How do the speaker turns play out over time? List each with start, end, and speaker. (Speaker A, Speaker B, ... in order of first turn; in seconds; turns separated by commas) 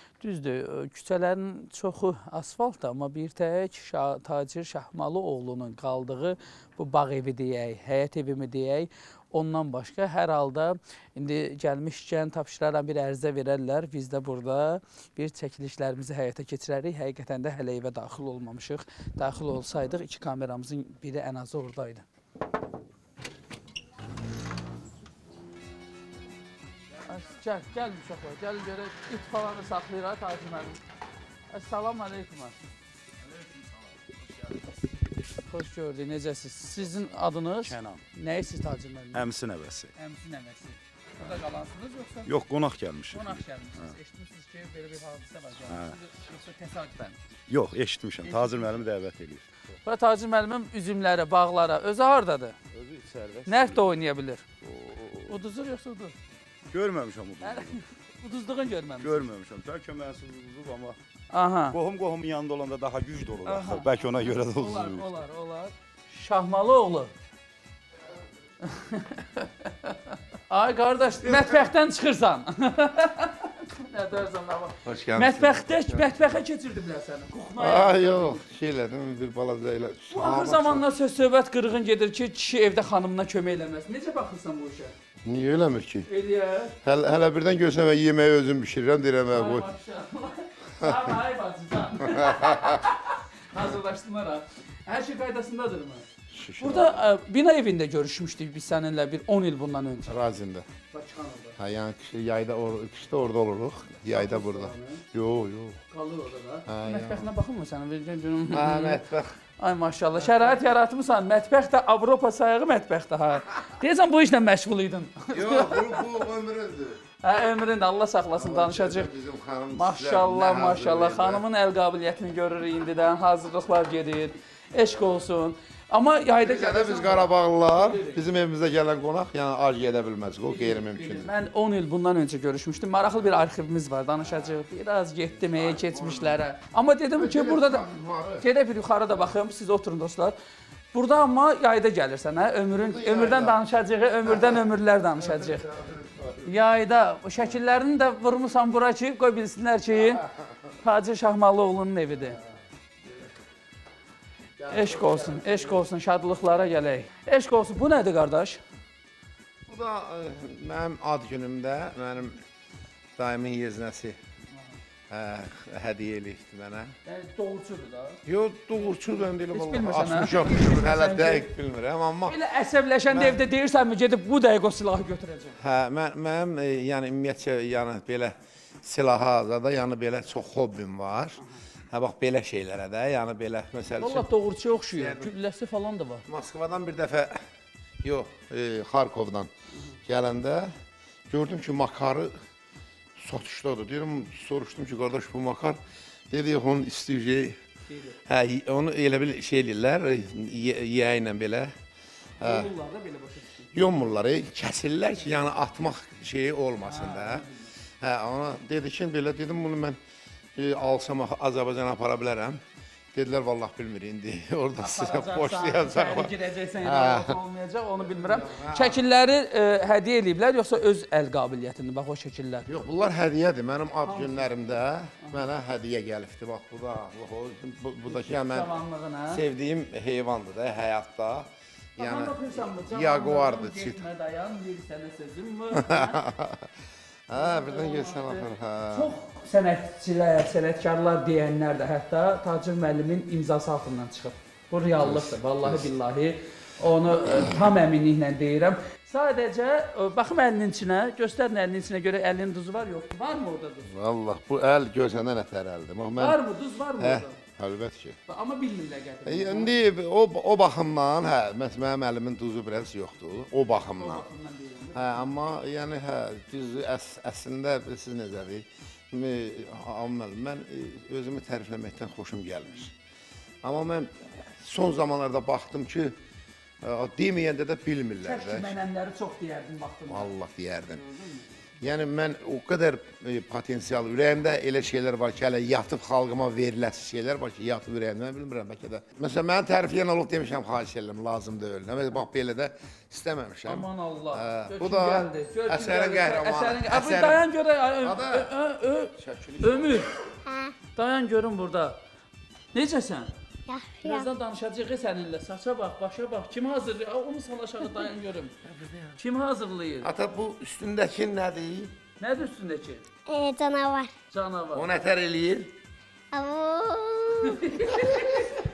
Speaker A: 0.2-22.1, Speaker A: 27.1-30.8, Speaker A: 31.5-32.5, Speaker A: 35.5-39.2, Speaker B: 37.6-38.0, Speaker B: 39.1-39.9, Speaker A: 40.0-42.3, Speaker B: 42.3-43.9, Speaker A: 43.1-47.2, Speaker B: 45.7-46.0, Speaker B: 47.5-49.5, Speaker A: 48.2-48.7, Speaker A: 49.9-52.6, Speaker B: 52.7-53.8, Speaker A: 53.5-54.4, Speaker B: 54.6-55.3, Speaker A: 55.3-56.1, Speaker B: 56.7-57.8, Speaker A: 57.4-59.3, Speaker B: 59.0-61.0, Speaker A: 61.3-61.8, Speaker B: 61.7-65.1, Speaker A: 63.5-67.1, Speaker A: 68.7-69.9, Speaker A: 70.5-78.4, Speaker C: 74.8-76.1, Speaker C: 77.6-80.8, Speaker A: 80.1-84.9, Speaker C: 85.2-86.1, Speaker A: 86.1-86.7, Speaker C: 86.8-89.7, Speaker A: 89.3-93.0, Speaker C: 92.2-92.8, Speaker A: 93.5-96.0, Speaker C: 96.3-97.0, Speaker A: 96.6-100.1, Speaker C: 100.0-100.7, Speaker A: 100.9-101.6, Speaker C: 101.6-105.8, Speaker A: 104.1-105.0, Speaker A: 105.9-109.0, Speaker C: 106.7-107.3, Speaker C: 108.5-109.3, Speaker A: 109.6-116.0, Speaker C: 115.3-117.0, Speaker A: 117.2-119.1, Speaker C: 118.4-121.4, Speaker A: 119.7-128.2, Speaker C: 126.4-131.3, Speaker A: 130.5-137.9, Speaker C: 135.5-136.4, Speaker C: 137.2-138.5, Speaker A: 138.4-140.3, Speaker A: 140.9-145.6, Speaker C: 142.8-143.6, Speaker C: 144.2-144.6, Speaker C: 145.2-146.6, Speaker A: 146.5-150.2, Speaker A: 150.8-152.4, Speaker C: 154.6-155.8, Speaker A: 154.7-158.6, Speaker C: 159.7-162.4, Speaker C: 163.2-164.2, Speaker C: 165.1-166.9, Speaker A: 167.1-168.2, Speaker C: 168.3-172.4, Speaker A: 169.5-171.5, Speaker A: 172.3-175.6, Speaker C: 173.1-173.4, Speaker C: 175.6-181.4, Speaker C: 181.9-184.3, Speaker A: 184.0-186.2, Speaker C: 184.9-185.3, Speaker C: 186.3-187.4, Speaker C: 188.0-189.5, Speaker C: 190.1-190.7, Speaker C: 191.3-192.3, Speaker C: 193.2-197.6, Speaker A: 197.9-198.2, Speaker C: 198.3-201.7, Speaker C: 202.4-202.7, Speaker A: 202.4-203.7, Speaker C: 203.7-207.4, Speaker A: 206.9-207.7, Speaker C: 208.0-210.0, Speaker C: 210.6-212.6, Speaker C: 213.1-217.3, Speaker A: 214.8-222.7, Speaker C: 218.0-219.0, Speaker C: 222.7-228.8, Speaker A: 224.1-224.5, Speaker A: 228.1-229.4, Speaker C: 229.3-234.1, Speaker A: 232.0-236.2, Speaker C: 235.7-236.7, Speaker C: 237.3-239.1, Speaker A: 237.3-253.9, Speaker C: 245.0-245.8, Speaker C: 253.9-256.4, Speaker A: 256.2-257.4, Speaker C: 257.0-258.2, Speaker A: 258.3-259.7, Speaker C: 259.2-264.2, Speaker A: 264.0-265.3, Speaker C: 264.9-272.9, Speaker C: 273.6-276.2, Speaker C: 276.8-278.7, Speaker A: 278.2-280.3, Speaker C: 280.1-281.0, Speaker A: 281.1-281.4, Speaker C: 281.8-297.4, Speaker A: 293.7-300.1, Speaker C: 298.0-298.5, Speaker C: 299.2-300.1, Speaker D: 300.5-300.7, Speaker A: 300.9-302.0, Speaker A: 302.7-303.3, Speaker D: 303.7-304.3, Speaker A: 304.0-308.6, Speaker C: 308.7-309.1, Speaker A: 309.2-310.1, Speaker C: 310.0-311.9, Speaker A: 312.2-313.0, Speaker D: 313.3-314.1, Speaker A: 314.3-314.9, Speaker C: 314.7-315.7, Speaker D: 316.3-317.7, Speaker A: 317.4-318.5